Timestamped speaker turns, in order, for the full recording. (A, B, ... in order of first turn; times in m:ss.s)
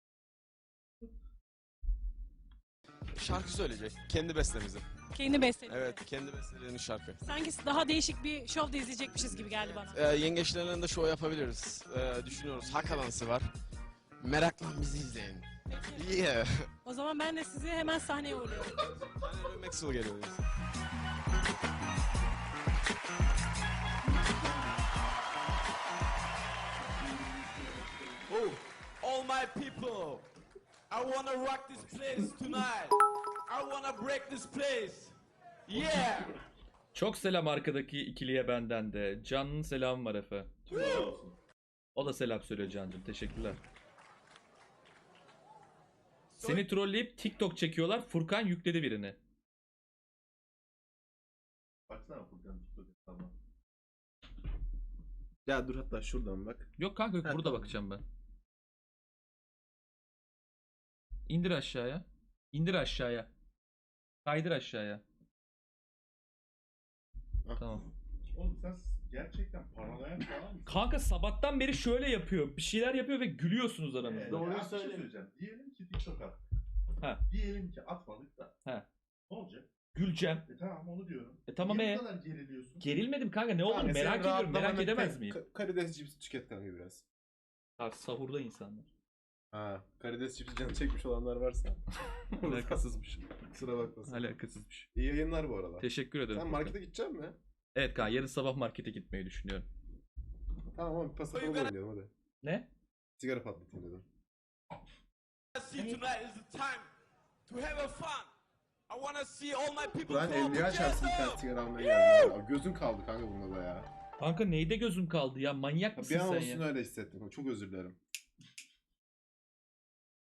0:03.1-0:04.9 A
0:05.1-0:06.0 B
0:05.6-0:07.2 A
0:07.2-0:10.0 B
0:09.8-0:13.5 A
0:14.2-0:16.7 A
0:15.7-0:16.0 B
0:16.8-0:18.8 B
0:19.2-0:20.4 A
0:28.3-0:30.2 A
0:30.9-0:35.1 A
0:35.7-0:36.4 A
0:36.9-0:40.5 C
0:40.7-0:41.3 D
0:40.7-0:41.2 E
0:41.9-0:43.6 C
0:46.3-0:46.6 A
0:46.4-0:49.2 C
0:51.9-0:53.3 D
0:55.4-0:56.7 E
0:56.8-0:58.0 C
0:57.2-0:57.7 E
1:01.3-1:03.3 C
1:04.2-1:05.0 C
1:07.4-1:07.8 E
1:07.6-1:07.9 C
1:08.3-1:10.8 D
1:10.6-1:14.4 C
1:14.0-1:16.4 D
1:14.2-1:15.1 E
1:17.3-1:18.5 D
1:19.3-1:19.7 D
1:19.9-1:20.5 C
1:20.4-1:22.8 D
1:21.5-1:22.0 C
1:22.8-1:25.4 C
1:23.6-1:27.0 E
1:27.8-1:28.8 C
1:29.5-1:31.8 E
1:32.3-1:33.3 C
1:32.4-1:32.9 E
1:33.4-1:34.3 E
1:34.0-1:34.9 C
1:34.9-1:37.4 E
1:35.8-1:36.8 C
1:37.7-1:39.7 C
1:40.7-1:42.1 E
1:41.3-1:41.7 A
1:42.4-1:42.7 C
1:43.2-1:44.0 E
1:45.5-1:46.9 A
1:47.5-1:48.3 A
1:48.9-1:51.4 A
1:50.1-1:53.9 E
1:54.2-1:56.6 C
1:56.0-1:58.0 E